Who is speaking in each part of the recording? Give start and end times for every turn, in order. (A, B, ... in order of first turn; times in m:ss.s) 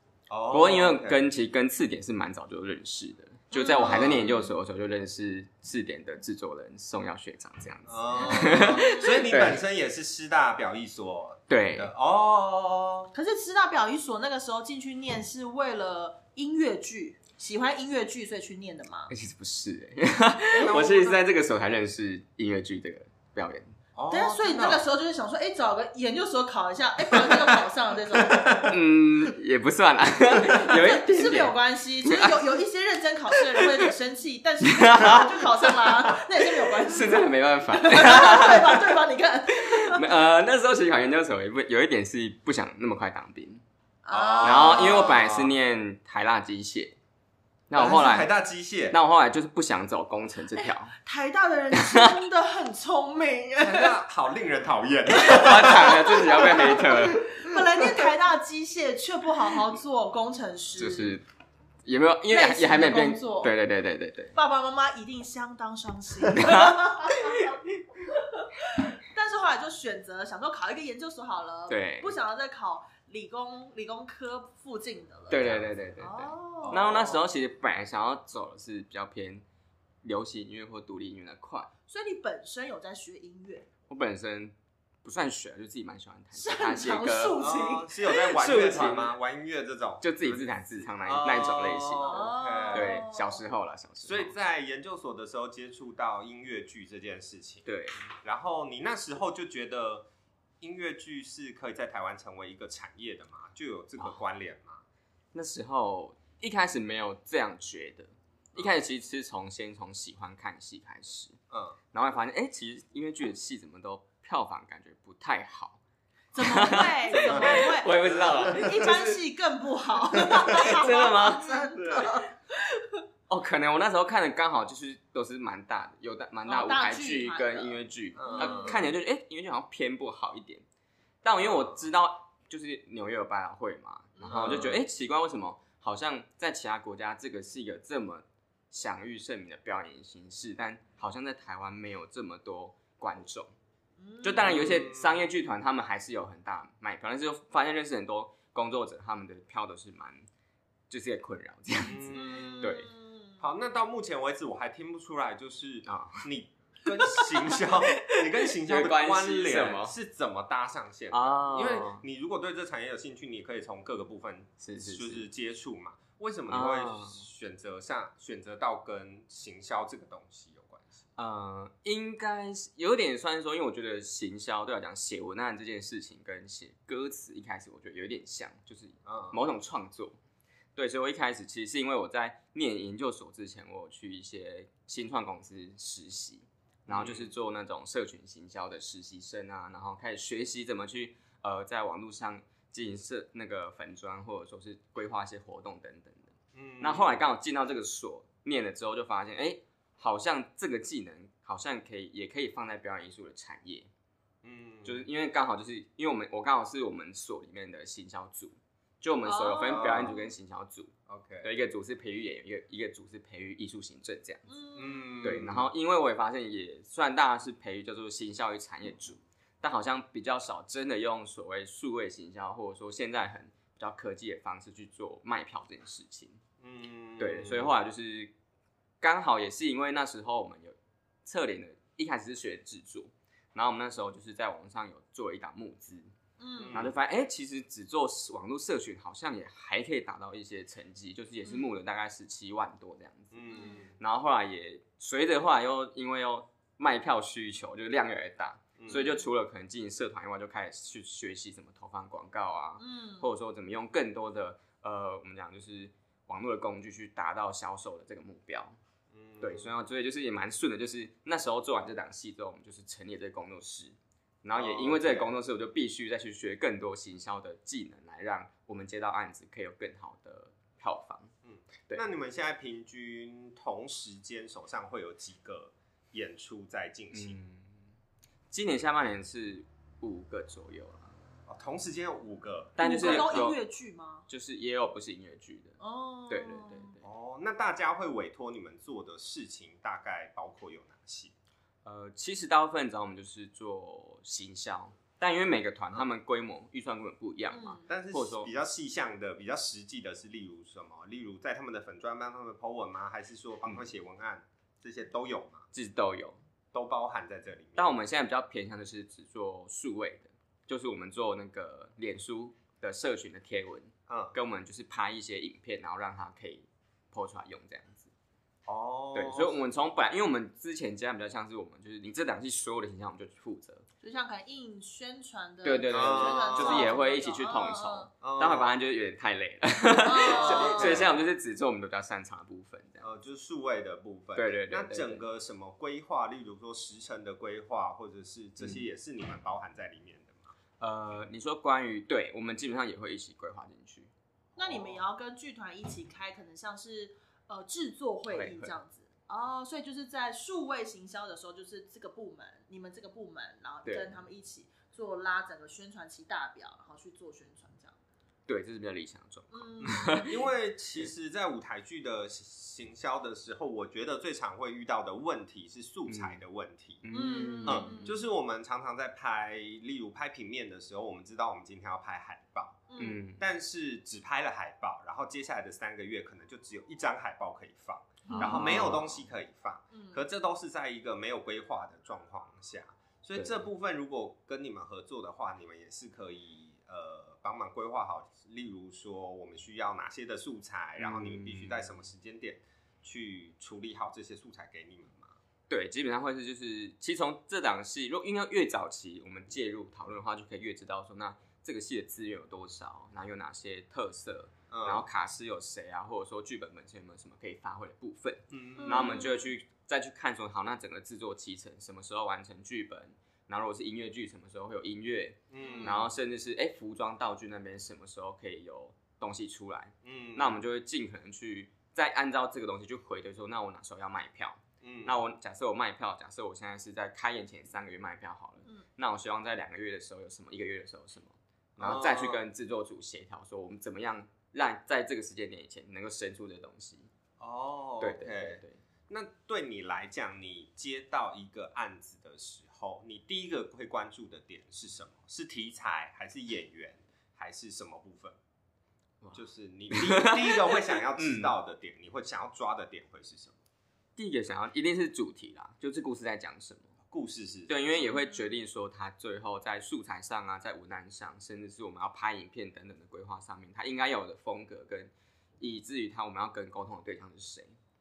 0:00.3-0:01.2 A
0:00.5-0:09.6 B
0:03.5-0:04.5 C
0:03.8-0:04.2 A
0:07.9-0:13.1 A
0:08.2-0:09.2 C
0:11.5-0:11.9 B
0:13.1-0:19.1 C
0:19.1-0:23.8 B
0:20.5-0:21.2 A
0:24.0-0:24.9 A
0:24.1-0:28.7 C
0:27.2-0:27.6 A
0:28.1-0:28.8 A
0:28.7-0:32.4 B
0:30.4-0:40.1 C
0:33.4-0:33.9 B
0:34.6-0:36.2 B
0:36.8-0:38.9 B
0:39.6-0:43.6 B
0:44.0-0:45.2 C
0:44.1-0:45.5 A
0:44.4-0:47.0 B
0:47.7-0:48.3 B
0:47.7-0:49.0 A
0:48.9-0:50.9 B
0:50.9-0:54.0 C
0:51.7-0:52.2 B
0:53.6-0:57.4 A
0:55.2-1:01.2 C
0:55.3-0:57.3 B
1:00.8-1:01.2 B
1:01.8-1:04.4 B
1:02.3-1:03.5 C
1:04.4-1:07.6 C
1:06.3-1:07.8 B
1:08.4-1:16.8 C
1:11.7-1:12.2 B
1:15.3-1:19.4 B
1:16.6-1:17.2 A
1:20.0-1:21.7 B
1:21.9-1:23.7 C
1:23.9-1:27.4 B
1:26.3-1:28.2 C
1:27.4-1:30.5 A
1:28.1-1:29.2 B
1:30.0-1:34.3 B
1:31.0-1:33.0 A
1:32.0-1:33.4 C
1:34.0-1:37.7 A
1:37.6-1:38.1 B
1:38.2-1:40.1 A
1:40.6-1:44.8 A
1:45.3-1:51.4 B
1:51.5-1:51.8 A
1:51.9-1:55.8 B
1:56.3-2:03.0 C
1:56.4-1:59.2 B
1:57.3-1:58.8 A
2:00.1-2:01.7 B
2:00.2-2:00.9 A
2:01.5-2:02.3 A
2:03.3-2:10.6 B
2:06.5-2:08.8 C
2:08.2-2:08.8 A
2:11.2-2:23.5 B
2:11.4-2:11.8 A
2:14.2-2:14.7 C
2:14.3-2:14.8 A
2:24.0-2:24.8 C
2:24.2-2:30.3 B
2:24.4-2:25.2 A
2:30.9-2:32.9 B
2:31.9-2:32.7 A
2:32.1-2:33.4 C
2:33.4-2:51.0 A
2:35.9-2:36.3 B
2:36.9-2:40.0 B
2:41.1-2:42.0 B
2:44.6-2:45.3 B
2:46.5-2:47.2 B
2:51.2-3:00.2 B
2:59.0-2:59.4 A
3:00.8-3:23.9 B
3:06.9-3:07.3 A
3:16.5-3:17.2 A
3:24.4-3:25.0 A
3:24.8-3:34.4 B
3:29.2-3:30.2 C
3:29.6-3:30.2 A
3:31.1-3:31.5 A
3:34.5-3:35.3 C
3:34.8-3:35.7 A
3:35.2-3:46.4 B
3:46.6-3:47.8 A
3:47.2-3:48.3 B
3:49.0-3:56.1 B
3:56.4-3:56.8 C
3:56.6-3:56.9 A
3:56.7-4:18.8 B
4:03.3-4:04.0 A
4:03.5-4:03.8 C
4:08.8-4:09.1 A
4:08.9-4:09.2 C
4:12.8-4:13.3 C
4:19.1-4:19.7 A
4:19.4-4:31.3 B
4:24.6-4:25.3 A
4:31.4-4:37.4 A
4:37.1-4:37.8 B
4:38.5-4:41.1 B
4:41.5-4:43.5 A
4:42.8-4:43.6 B
4:42.8-4:44.3 C
4:44.3-4:47.0 B
4:45.8-4:47.0 C
4:47.0-4:51.4 A
4:51.8-4:58.5 B
4:57.5-4:57.9 C
4:57.9-5:05.7 A
5:05.7-5:06.4 B
5:06.7-5:08.0 A
5:07.8-5:18.1 B
5:14.1-5:14.4 A
5:18.7-5:19.6 A
5:19.1-5:23.8 B
5:24.0-5:28.1 C
5:25.6-5:33.1 B
5:25.9-5:27.0 A
5:28.2-5:28.7 A
5:30.0-5:31.0 C
5:30.2-5:31.1 A
5:33.0-5:40.5 A
5:34.4-5:35.3 B
5:40.8-5:44.1 B
5:44.5-5:45.0 A
5:44.6-5:58.0 C
5:48.3-5:48.7 B
5:53.8-5:54.2 B
5:58.5-6:00.3 B
5:59.5-6:00.5 C
5:59.8-6:07.1 A
6:06.1-6:06.4 B
6:07.0-6:08.1 B
6:07.1-6:08.2 C
6:07.6-6:35.4 A
6:12.9-6:13.2 C
6:13.0-6:13.4 B
6:18.3-6:18.7 C
6:18.3-6:19.2 B
6:19.9-6:20.2 C
6:23.4-6:23.6 B
6:31.0-6:31.9 B
6:35.7-7:17.1 B
6:44.7-6:45.0 A
6:48.5-6:49.2 A
6:48.8-6:49.5 C
6:55.5-6:56.1 A
6:55.6-6:56.1 C
7:00.0-7:00.6 A
7:04.8-7:05.2 A
7:11.8-7:12.4 A
7:17.4-7:28.4 A
7:18.0-7:18.8 B
7:29.2-7:31.5 B
7:29.3-7:33.6 A
7:34.2-7:36.9 B
7:37.1-7:37.8 A
7:37.7-7:47.8 B
7:38.0-7:38.5 C